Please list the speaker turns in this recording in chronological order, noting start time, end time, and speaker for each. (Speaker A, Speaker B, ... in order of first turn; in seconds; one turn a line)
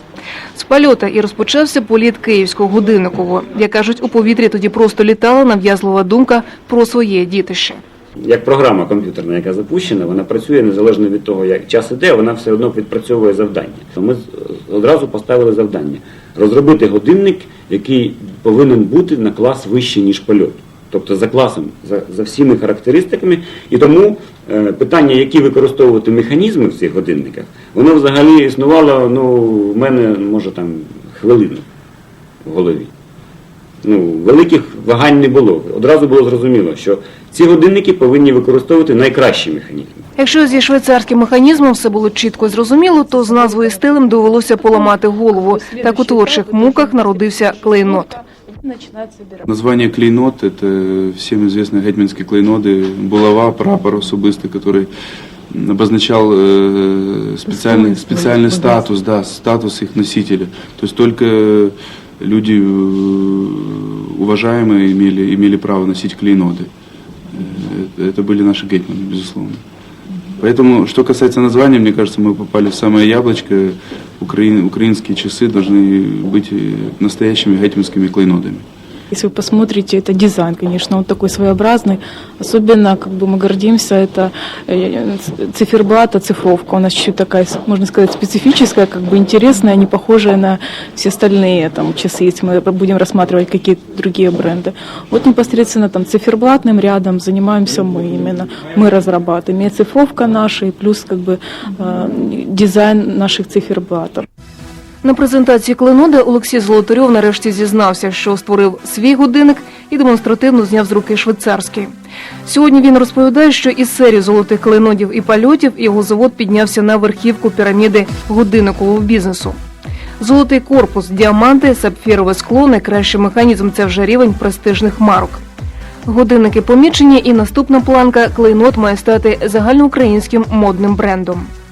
Speaker A: 0.6-7.8
Speaker B: 8.2-31.6
Speaker B: 32.5-32.9
Speaker B: 33.8-40.0
Speaker A: 40.2-48.2
Speaker C: 45.4-47.0
Speaker C: 47.8-49.5
Speaker D: 49.5-54.9
Speaker D: 55.5-66.7
Speaker C: 58.0-58.5
Speaker D: 67.3-69.6
Speaker D: 70.4-78.7
Speaker C: 79.1-104.3
Speaker A: 105.0-111.9
Speaker A: 112.5-119.6
Speaker A: 120.2-125.4
Speaker A: 126.1-131.5